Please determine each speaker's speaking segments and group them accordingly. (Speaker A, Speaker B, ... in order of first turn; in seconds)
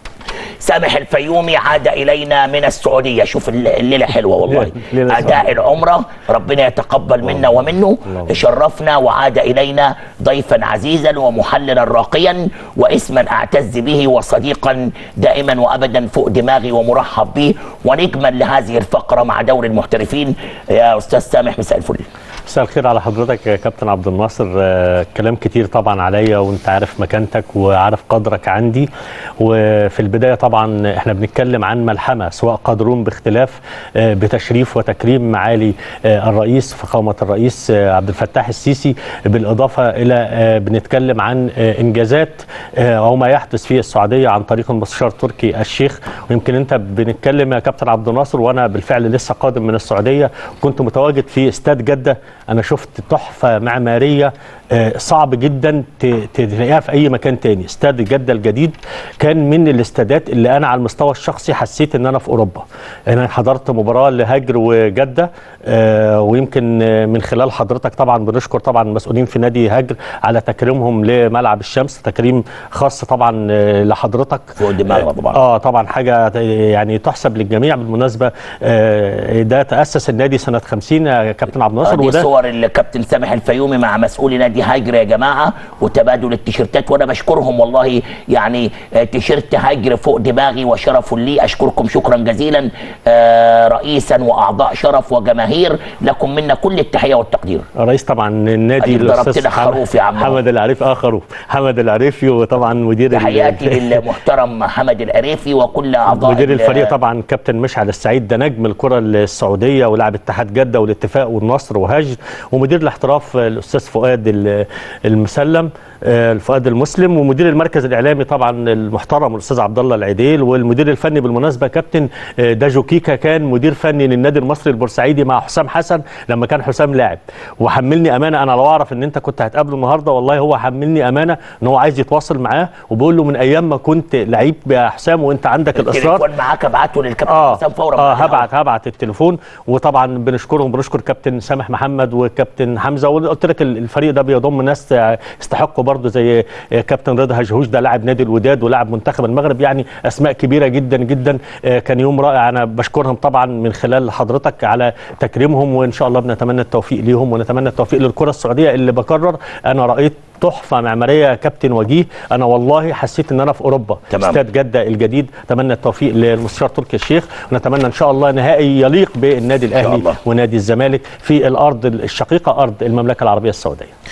Speaker A: 0.6-22.0, 74.6-75.3, 81.8-97.6, 98.8-100.4, 103.1-106.9, 135.8-138.5, 164.1-164.4, 169.8-170.2
Speaker B: 4.5-5.5, 7.3-7.5, 22.5-28.9, 29.4-82.3, 97.8-103.8, 106.1-136.2, 137.3-173.9